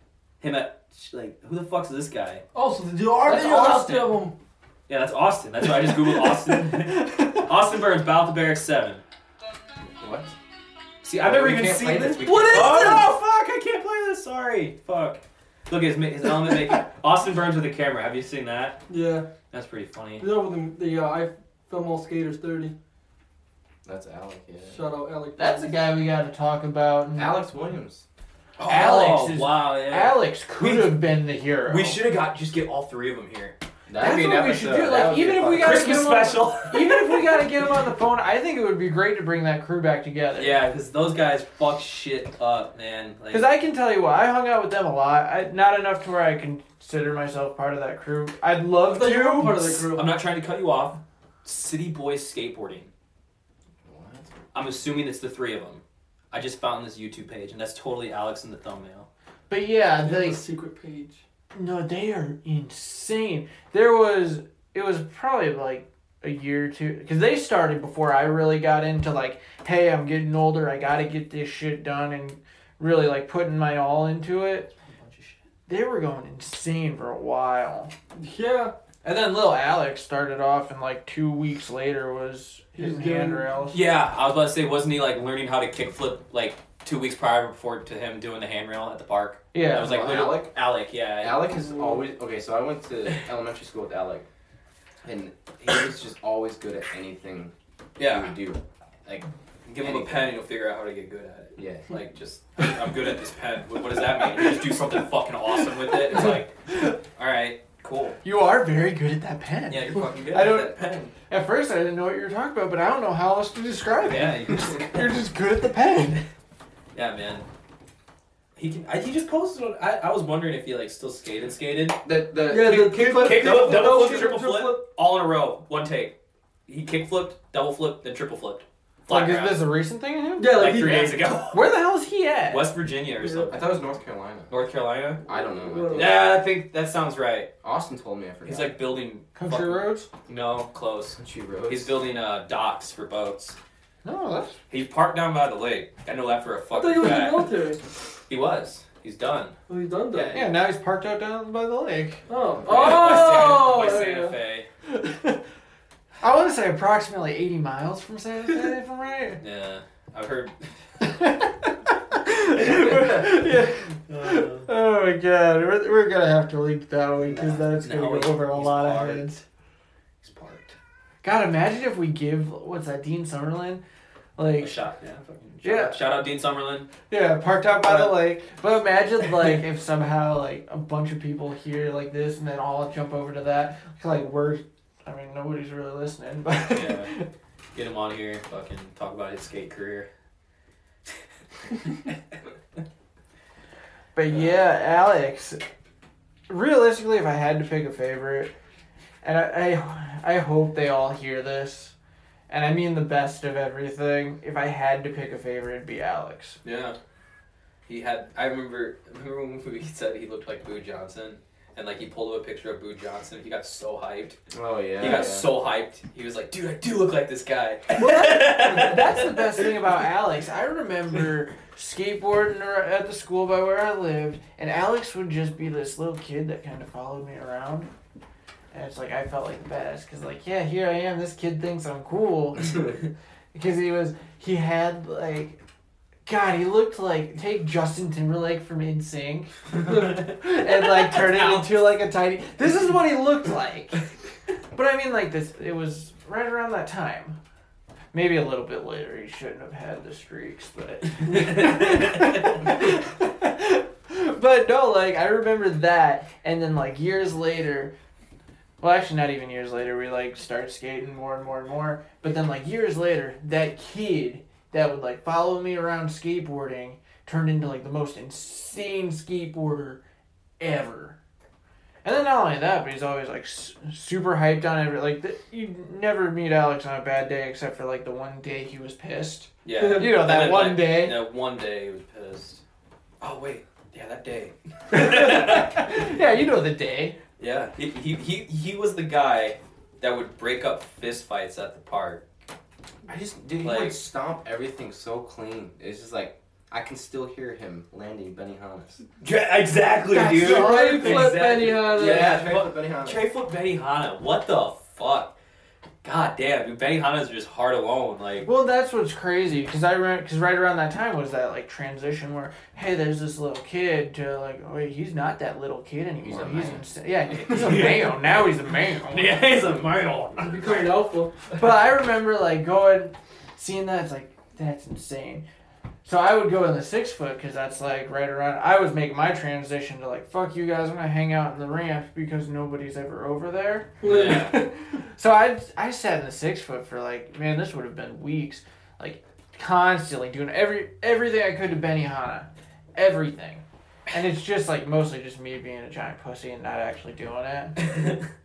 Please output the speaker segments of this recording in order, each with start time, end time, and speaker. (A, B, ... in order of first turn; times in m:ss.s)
0:00.4-0:02.4 A
0:02.5-0:04.3 B
0:03.3-0:04.2 A
0:04.9-0:09.0 A
0:05.9-0:07.4 C
0:10.0-0:10.3 D
0:11.0-0:18.8 A
0:11.2-0:12.9 D
0:12.2-0:13.1 B
0:18.9-0:19.3 B
0:19.5-0:20.3 A
0:20.2-0:22.7 B
0:23.8-0:24.8 D
0:24.7-0:25.8 B
0:25.4-0:27.4 C
0:27.1-0:28.0 D
0:28.6-0:31.1 A
0:28.6-0:32.0 C
0:31.7-0:33.6 A
0:33.9-0:36.0 D
0:34.0-0:40.6 C
0:35.6-0:37.5 A
0:40.4-0:43.5 A
0:43.3-0:49.9 C
0:48.9-0:50.1 B
0:49.9-0:52.9 A
0:53.8-0:54.3 D
0:54.5-0:59.1 A
0:59.5-1:00.4 C
1:00.0-1:01.2 B
1:01.5-1:14.7 C
1:14.8-1:15.4 A
1:15.7-1:17.9 C
1:18.2-1:18.7 B
1:19.0-1:23.8 C
1:22.8-1:23.5 B
1:23.7-1:31.5 A
1:29.5-1:30.1 C
1:29.7-1:30.5 D
1:31.2-1:34.3 D
1:35.0-1:40.3 D
1:38.0-1:38.4 A
1:39.7-1:48.2 A
1:41.6-1:41.9 D
1:45.8-1:47.0 C
1:48.2-1:56.2 C
1:49.7-1:51.1 A
1:54.0-1:55.1 A
1:56.9-1:57.5 A
1:58.6-2:02.0 A
2:02.0-2:04.0 D
2:02.5-2:04.8 B
2:02.7-2:06.2 A
2:06.7-2:09.6 A
2:09.1-2:12.7 C
2:10.4-2:11.2 B
2:10.5-2:11.7 A
2:12.5-2:13.8 A
2:13.2-2:13.5 B
2:13.5-2:14.5 D
2:14.5-2:15.2 A
2:15.2-2:16.2 D
2:15.3-2:16.2 B
2:15.9-2:17.5 A
2:17.6-2:18.8 D
2:18.4-2:23.6 A
2:19.4-2:20.1 C
2:21.2-2:22.0 D
2:24.0-2:24.6 C
2:24.7-2:27.5 A
2:26.7-2:27.8 B
2:28.3-2:29.6 A
2:29.7-2:30.4 B
2:30.1-2:30.5 A
2:30.3-2:32.2 C
2:32.3-2:34.4 B
2:32.6-2:33.2 D
2:32.6-2:34.7 A
2:34.9-2:35.4 C
2:36.2-2:39.4 C
2:39.4-2:40.6 A
2:41.0-2:49.4 C
2:42.6-2:43.5 A
2:44.1-2:44.7 A
2:47.2-2:49.3 A
2:50.2-2:50.8 A
2:51.2-2:53.8 C
2:54.4-2:54.8 C
2:54.6-2:56.9 A
2:55.6-2:56.0 C
2:57.1-3:07.3 C
2:57.8-2:58.2 A
3:06.7-3:07.1 A
3:07.8-3:10.1 A
3:14.2-3:15.6 C
3:16.5-3:18.5 C
3:19.2-3:21.9 C
3:22.5-3:26.6 C
3:26.6-3:27.0 A
3:27.9-3:34.4 A
3:34.5-3:35.5 D
3:35.0-3:39.7 A
3:38.0-3:47.9 C
3:48.7-3:55.6 C
3:56.3-4:04.0 C
4:00.0-4:01.7 A
4:04.7-4:07.4 C
4:08.1-4:17.9 C
4:11.3-4:12.3 A
4:18.8-4:30.0 C
4:30.6-4:31.2 C
4:32.0-4:41.2 C
4:39.6-4:42.6 A
4:39.8-4:40.2 B
4:43.2-4:46.2 A
4:44.9-4:47.2 C
4:47.4-4:52.2 A
4:53.1-4:59.0 D
4:53.6-4:54.0 A
4:59.2-5:05.4 A
5:00.1-5:01.5 C
5:00.3-5:02.4 B
5:01.8-5:03.2 D
5:06.0-5:08.5 A
5:08.4-5:19.6 C
5:16.2-5:16.9 D
5:17.3-5:18.6 A
5:17.5-5:17.8 D
5:19.1-5:21.0 A
5:20.4-5:21.3 B
5:21.6-5:25.4 C
5:26.0-5:47.8 C
5:34.0-5:34.5 B
5:34.0-5:34.6 A